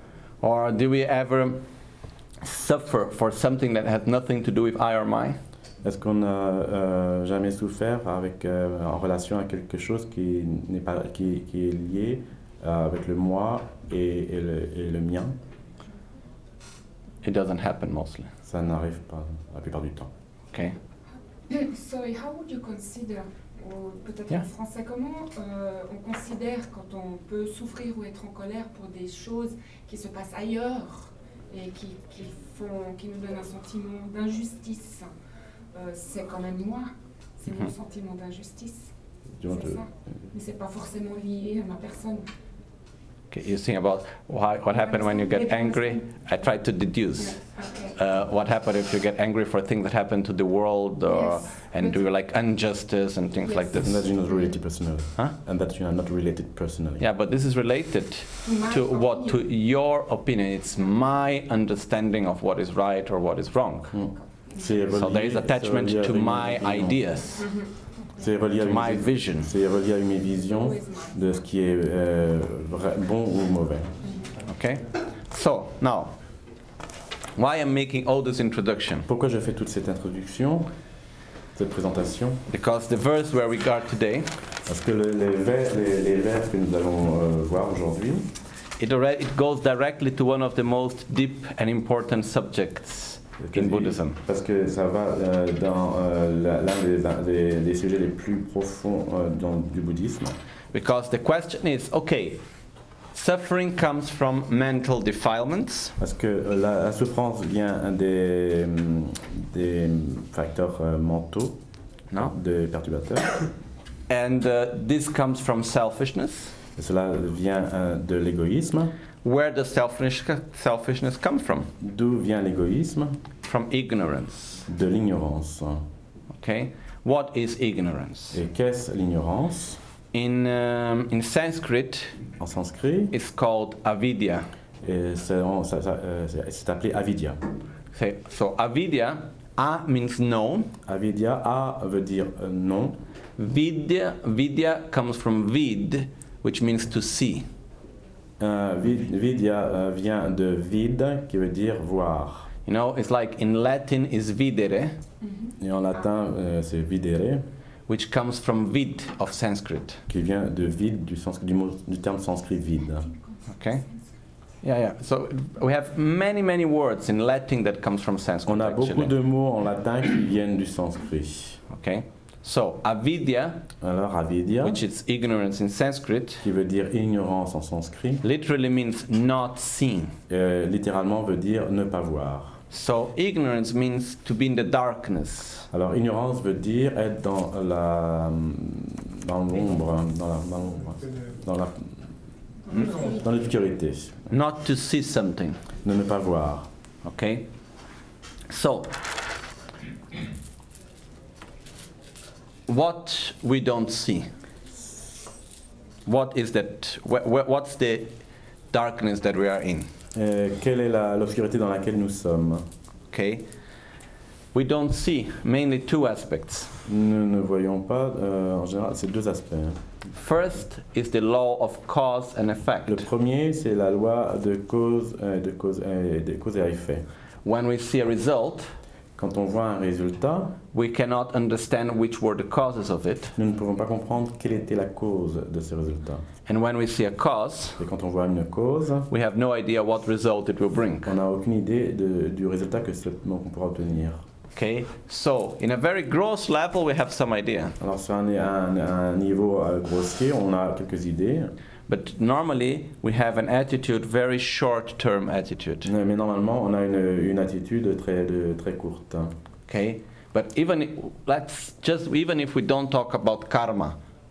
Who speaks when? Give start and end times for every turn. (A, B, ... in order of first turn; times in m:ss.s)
0:00.4-0:01.6 A
0:02.4-0:05.4 A
0:05.8-0:15.4 B
0:17.2-0:18.3 A
0:18.4-0:20.1 B
0:21.5-0:35.1 C
0:35.7-0:38.9 C
0:39.4-0:39.8 B
0:39.5-0:42.3 C
0:43.3-0:47.4 A
0:44.7-0:46.0 C
0:47.2-0:48.0 C
0:48.0-0:54.1 A
0:51.1-0:51.9 C
0:53.5-0:54.5 C
0:53.8-0:57.1 B
0:57.0-1:04.0 A
0:58.4-0:59.4 C
1:03.9-1:07.0 B
1:04.9-1:07.5 A
1:08.2-1:13.9 B
1:08.6-1:09.5 A
1:10.5-1:11.1 C
1:14.5-1:16.1 A
1:17.4-1:19.1 A
1:19.1-1:20.7 B
1:21.6-1:22.4 B
1:22.5-1:24.3 A
1:24.6-1:28.3 B
1:28.8-1:34.2 A
1:33.4-1:40.4 B
1:40.7-1:42.4 A
1:43.1-1:46.0 A
1:46.0-1:51.6 B
1:52.2-1:53.5 B
1:54.1-1:56.5 A
1:56.8-1:58.9 B
1:59.2-2:01.7 A
2:01.8-2:03.2 B
2:03.4-2:04.7 A
2:04.7-2:05.8 B
2:06.4-2:08.4 A
2:08.3-2:09.8 B
2:10.1-2:12.2 A
2:12.4-2:13.1 B
2:13.1-2:14.5 A
2:14.8-2:17.4 B
2:17.9-2:20.7 A
2:20.8-2:23.0 B
2:23.4-2:27.5 A
2:28.4-2:32.5 B
2:32.7-2:35.0 A
2:35.2-2:35.5 C
2:35.6-2:37.4 B
2:37.9-2:40.0 A
2:40.1-2:43.1 B
2:43.5-2:43.8 A
2:44.6-2:49.1 A
2:48.5-2:51.6 B
2:51.7-2:53.6 A
2:53.8-2:54.8 B
2:54.6-2:56.4 A
2:56.4-2:58.2 B
2:58.2-3:00.2 A
3:00.3-3:02.6 B
3:02.7-3:05.7 A
3:05.7-3:12.0 B
3:12.7-3:13.2 C
3:12.7-3:14.3 B
3:14.3-3:15.6 A
3:15.8-3:16.7 B
3:17.0-3:17.5 A
3:18.5-3:19.0 A
3:22.7-3:24.3 A
3:26.1-3:28.2 A
3:28.7-3:29.9 A
3:30.2-3:32.7 B
3:33.1-3:33.5 A
3:34.5-3:36.8 A
3:36.9-3:39.8 B
3:40.2-3:43.1 A
3:42.9-3:47.1 B
3:47.4-3:48.7 A
3:49.2-3:50.6 B
3:50.7-3:53.4 A
3:53.4-3:56.2 B
3:56.5-3:57.8 A
3:57.8-3:59.1 B
3:59.1-4:01.1 A
4:01.0-4:04.2 B
4:04.6-4:07.8 A
4:07.8-4:11.5 B
4:11.9-4:15.9 A
4:15.8-4:19.3 B
4:19.7-4:24.0 A